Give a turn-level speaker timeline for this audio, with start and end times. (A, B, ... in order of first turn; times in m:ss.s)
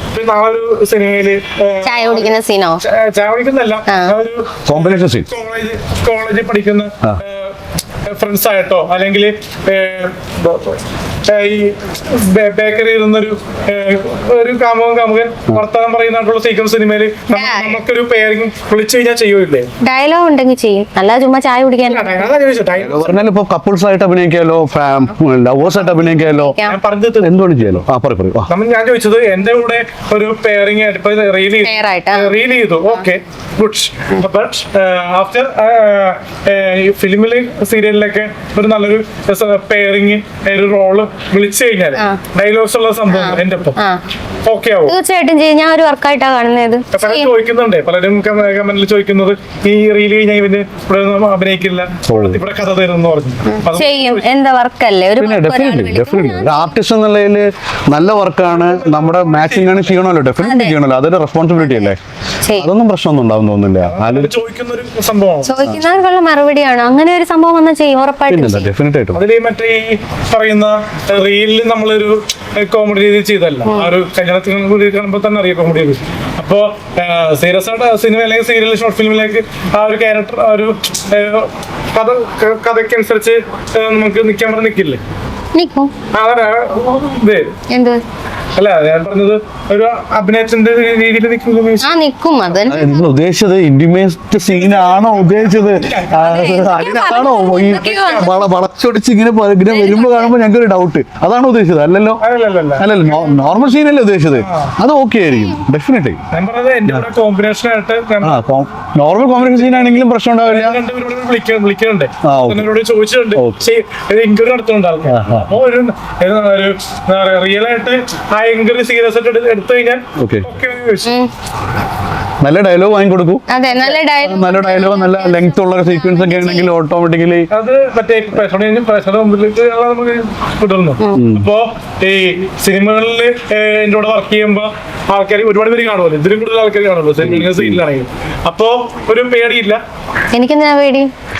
0:00.1-0:19.7 A
0:01.8-0:02.8 B
0:03.9-0:04.1 B
0:04.6-0:05.3 C
0:17.3-0:17.8 B
0:19.8-0:22.2 B
0:21.8-0:23.2 A
0:22.8-0:26.6 C
0:25.8-0:26.8 B
0:26.6-0:27.8 A
0:27.2-0:28.5 C
0:28.5-0:43.8 A
0:31.6-0:32.3 B
0:41.9-0:42.2 B
0:43.1-0:44.0 B
0:44.4-0:45.0 A
0:44.9-0:47.3 B
0:46.9-0:54.3 A
0:52.1-0:52.4 C
0:53.4-0:56.7 B
0:55.2-1:02.0 C
0:58.4-1:00.0 A
1:00.4-1:00.8 B
1:02.4-1:02.7 B
1:02.5-1:04.3 C
1:03.8-1:05.5 A
1:05.4-1:08.7 B
1:08.3-1:09.2 C
1:09.1-1:25.0 A
1:13.6-1:13.9 B
1:25.5-1:25.9 B
1:26.1-1:27.5 A
1:27.7-1:28.0 B
1:28.6-1:31.9 A
1:31.8-1:33.0 B
1:32.6-1:42.2 C
1:34.4-1:36.6 A
1:36.2-1:38.4 B
1:37.5-1:38.4 A
1:39.6-1:40.3 B
1:42.2-1:43.0 A
1:42.8-1:46.2 C
1:43.2-1:43.5 B
1:44.4-1:44.7 A
1:46.3-1:48.4 A
1:48.2-1:50.8 C
1:49.3-2:01.1 A
1:52.2-1:52.7 C
1:53.3-1:53.6 C
1:55.1-1:55.6 C
2:00.2-2:00.5 C
2:01.0-2:01.3 B
2:02.4-2:03.4 C
2:03.5-2:06.7 B
2:03.7-2:04.0 A
2:04.2-2:07.5 C
2:07.5-2:19.8 A
2:11.1-2:11.5 C
2:17.2-2:17.8 C
2:20.3-2:21.1 B